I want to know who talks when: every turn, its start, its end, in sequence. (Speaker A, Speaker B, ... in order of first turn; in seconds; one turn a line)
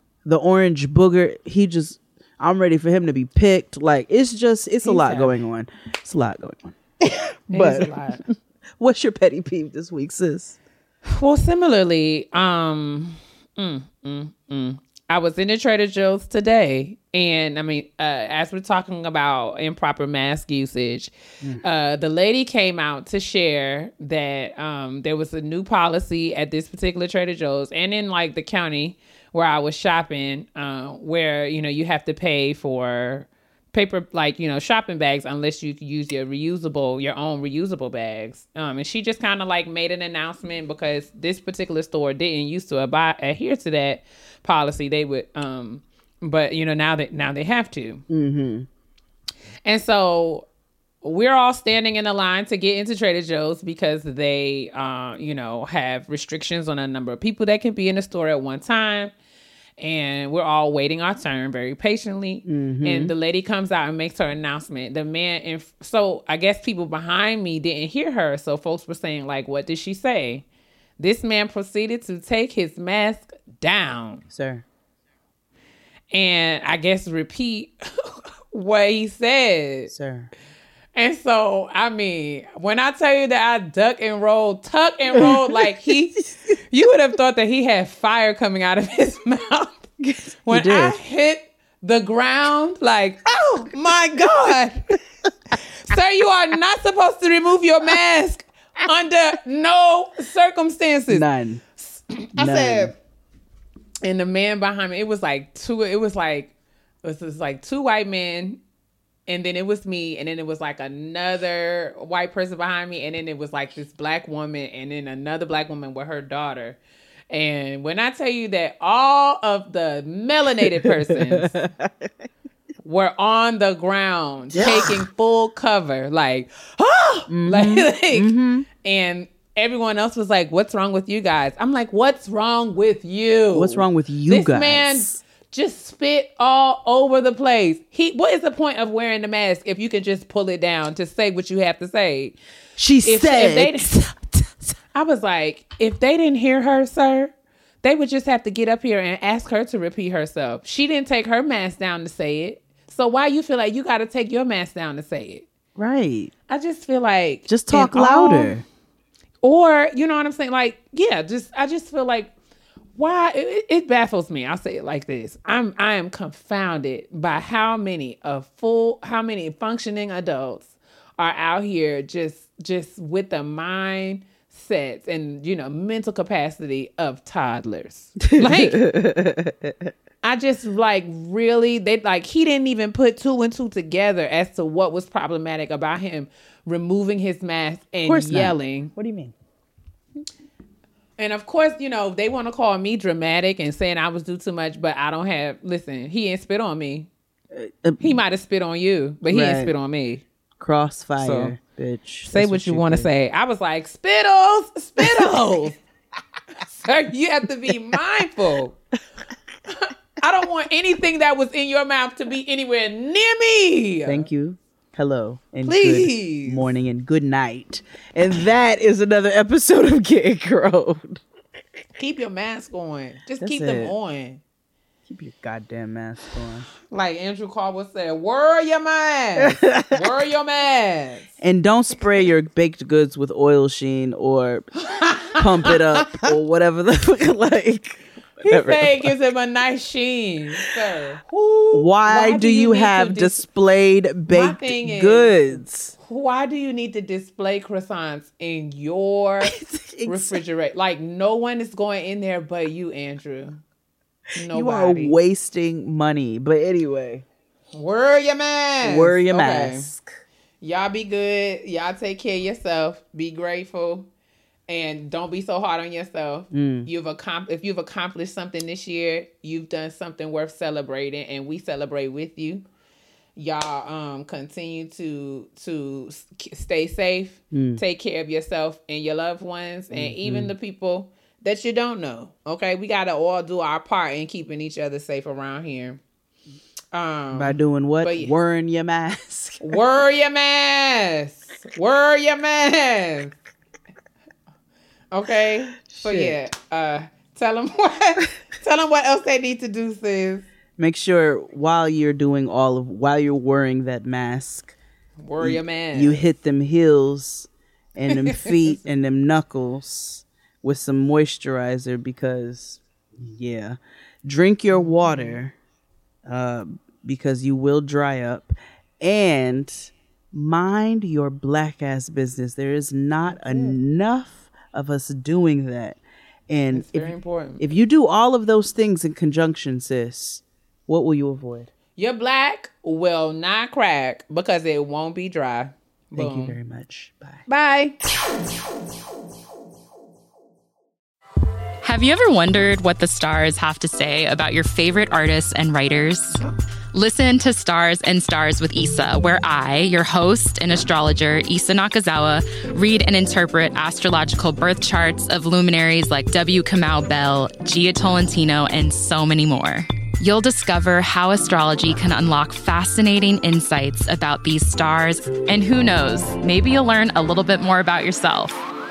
Speaker A: 0.2-7.9
Speaker B: 4.8-5.3
Speaker B: 7.5-8.2
Speaker A: 8.8-10.6
Speaker B: 11.1-48.0
Speaker A: 48.1-48.7
Speaker B: 49.6-50.5
Speaker B: 51.0-59.1
Speaker B: 59.8-70.4
Speaker A: 62.5-63.1
Speaker B: 71.0-74.2
Speaker A: 74.3-74.6
Speaker B: 76.1-79.9
Speaker A: 79.9-80.3
Speaker B: 80.9-89.9
Speaker A: 85.2-85.7
Speaker A: 90.0-91.0
Speaker B: 90.5-95.0
Speaker B: 95.8-101.2
Speaker A: 101.1-101.6
Speaker B: 101.8-102.9
Speaker A: 102.3-102.9
Speaker B: 104.0-106.5
Speaker B: 107.0-108.6
Speaker B: 109.3-116.8
Speaker B: 117.3-121.5
Speaker A: 120.8-122.1
Speaker B: 122.8-142.3
Speaker A: 124.5-125.0
Speaker A: 127.3-128.7
Speaker A: 133.5-135.2
Speaker A: 142.8-144.7
Speaker B: 143.0-143.9
Speaker B: 144.9-147.3
Speaker B: 147.8-155.4
Speaker A: 155.8-156.3
Speaker B: 156.5-158.6
Speaker A: 157.5-158.6
Speaker B: 159.4-162.3
Speaker B: 162.9-178.8
Speaker A: 178.3-179.9
Speaker B: 180.2-188.9
Speaker A: 188.1-189.3
Speaker B: 191.2-197.1
Speaker A: 197.5-198.2
Speaker B: 198.0-200.2
Speaker A: 199.3-199.7
Speaker A: 200.6-203.1
Speaker B: 201.2-201.5
Speaker B: 202.2-205.8
Speaker A: 205.0-205.4
Speaker B: 206.7-208.8
Speaker B: 209.7-214.3
Speaker A: 214.1-221.2
Speaker B: 215.6-216.7
Speaker B: 222.0-224.4
Speaker A: 223.4-223.9
Speaker A: 225.1-226.7
Speaker B: 226.8-231.3
Speaker A: 229.4-230.0
Speaker A: 231.4-234.7
Speaker B: 234.8-236.3
Speaker A: 235.3-239.1
Speaker B: 238.4-243.4
Speaker A: 241.7-245.9
Speaker B: 244.3-253.6
Speaker A: 249.5-250.4
Speaker B: 254.3-255.2
Speaker A: 254.5-257.2
Speaker B: 257.7-259.9
Speaker A: 258.8-260.1
Speaker B: 260.6-264.1
Speaker B: 264.7-272.6
Speaker A: 266.5-266.9
Speaker B: 273.4-286.0
Speaker A: 277.5-277.8
Speaker A: 279.9-280.5
Speaker B: 286.9-288.3
Speaker A: 287.3-289.8
Speaker B: 289.6-293.4
Speaker B: 295.1-300.5
Speaker A: 295.9-296.4
Speaker A: 300.8-304.8
Speaker B: 305.2-306.2
Speaker A: 305.4-315.5
Speaker B: 308.1-308.5
Speaker B: 314.7-315.4
Speaker A: 316.2-331.7
Speaker B: 323.3-323.8
Speaker B: 326.7-327.6
Speaker B: 331.9-336.6
Speaker A: 336.1-337.4
Speaker B: 337.5-337.9
Speaker C: 341.8-346.4
Speaker C: 346.9-368.6